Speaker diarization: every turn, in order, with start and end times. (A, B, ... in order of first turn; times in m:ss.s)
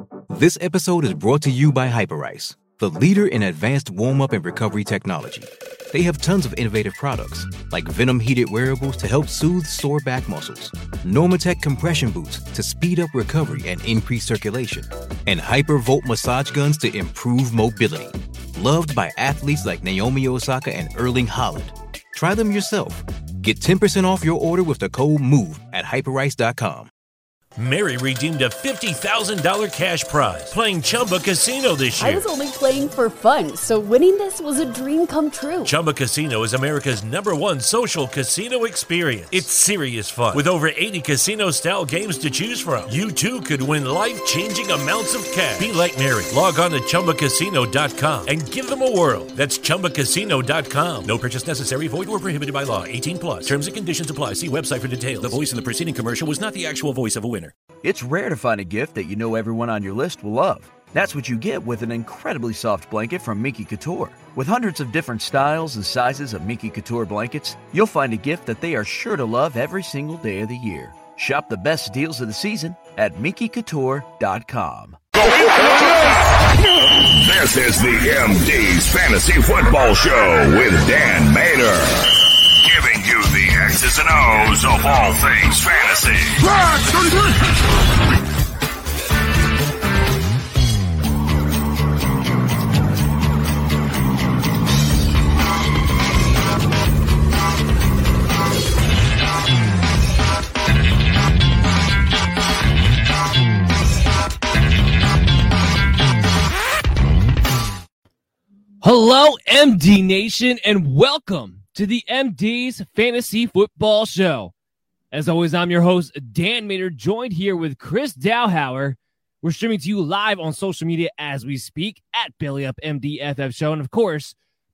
0:00.3-0:26.9 A
0:27.6-0:32.3 B
0:32.0-0:35.7 C
0:35.6-0:57.5 B
0:57.8-1:15.0 D
1:15.2-1:26.5 E
1:48.8-1:54.5 F
1:55.1-2:04.4 F